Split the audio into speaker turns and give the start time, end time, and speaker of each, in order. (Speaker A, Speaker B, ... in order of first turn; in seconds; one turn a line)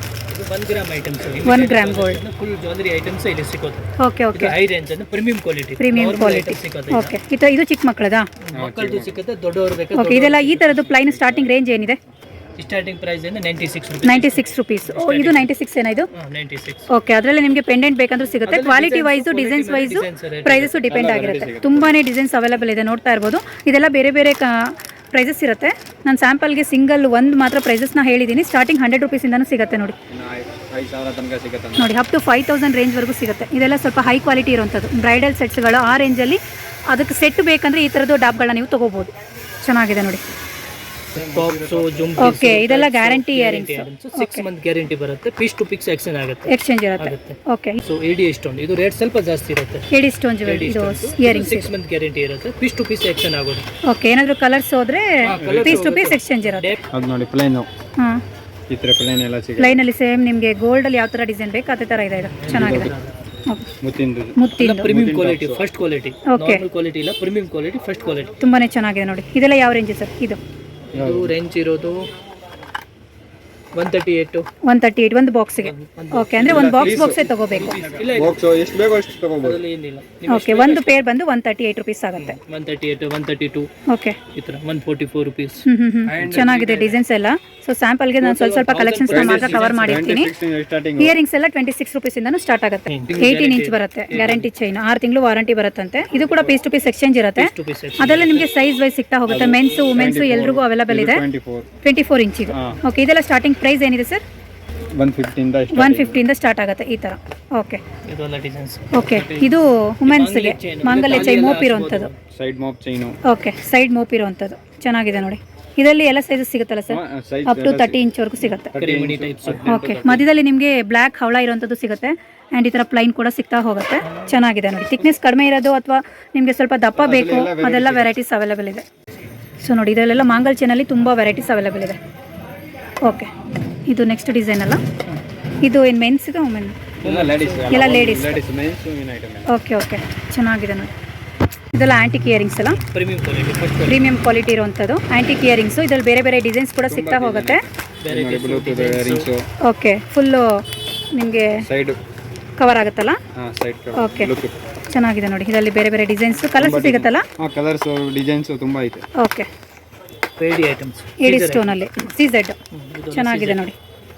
Speaker A: 0.3-7.1
Speaker B: 1.4-2.2
Speaker B: 4.0-4.5
Speaker B: 5.8-8.3
Speaker A: 8.4-10.9
Speaker C: 8.5-9.1
Speaker B: 9.9-12.0
Speaker C: 11.2-11.4
Speaker A: 12.6-15.5
Speaker B: 14.0-16.1
Speaker A: 16.1-16.9
Speaker B: 16.9-30.0
Speaker A: 18.5-21.1
Speaker C: 20.9-22.0
Speaker C: 30.1-31.9
Speaker B: 31.8-40.2
Speaker C: 41.1-42.4
Speaker A: 41.2-49.9
Speaker B: 42.2-44.5
Speaker B: 46.5-47.8
Speaker B: 49.9-51.7
Speaker A: 50.5-53.7
Speaker B: 53.9-56.7
Speaker A: 55.2-56.8
Speaker C: 55.4-55.9
Speaker C: 56.9-57.7
Speaker C: 58.7-59.8
Speaker B: 59.6-62.9
Speaker A: 62.4-63.1
Speaker C: 62.5-62.9
Speaker C: 63.8-65.6
Speaker B: 64.4-64.9
Speaker A: 64.6-68.3
Speaker B: 66.3-66.6
Speaker B: 68.4-70.4
Speaker A: 70.9-72.1
Speaker C: 71.0-71.3
Speaker A: 73.8-74.5
Speaker B: 74.6-77.8
Speaker A: 75.6-78.4
Speaker C: 76.4-77.3
Speaker C: 78.1-79.6
Speaker A: 79.4-81.1
Speaker B: 80.3-82.4
Speaker A: 82.2-83.7
Speaker B: 83.9-84.2
Speaker A: 84.3-86.8
Speaker B: 85.7-90.3
Speaker C: 86.1-87.0
Speaker A: 88.2-90.1
Speaker C: 89.1-91.2
Speaker B: 91.0-101.2
Speaker A: 92.9-94.5
Speaker C: 96.1-96.6
Speaker A: 97.4-98.5
Speaker C: 99.3-101.7
Speaker B: 101.8-104.2
Speaker C: 102.5-102.8
Speaker C: 105.0-106.2
Speaker B: 105.7-107.8
Speaker A: 108.1-109.5
Speaker B: 108.9-112.1
Speaker A: 110.0-112.2
Speaker C: 112.3-113.2
Speaker B: 113.2-118.7
Speaker C: 116.9-118.0
Speaker C: 118.7-120.3
Speaker A: 118.7-119.7
Speaker B: 119.7-128.8
Speaker A: 124.0-124.4
Speaker C: 127.0-128.2
Speaker B: 129.6-132.0
Speaker B: 133.0-133.3
Speaker B: 133.9-134.8
Speaker B: 135.6-136.8
Speaker A: 137.0-137.7
Speaker C: 137.0-139.5
Speaker B: 137.7-138.4
Speaker B: 139.5-140.9
Speaker B: 141.7-142.8
Speaker A: 142.8-144.0
Speaker B: 143.8-147.6
Speaker C: 146.9-149.5
Speaker A: 148.0-149.3
Speaker B: 149.6-151.7
Speaker C: 151.6-152.0
Speaker B: 152.6-153.2
Speaker C: 153.3-154.5
Speaker B: 153.9-154.3
Speaker B: 154.9-157.3
Speaker C: 156.6-159.0
Speaker B: 159.2-159.5
Speaker A: 160.4-161.9
Speaker B: 161.2-162.6
Speaker A: 162.7-163.7
Speaker B: 163.1-163.8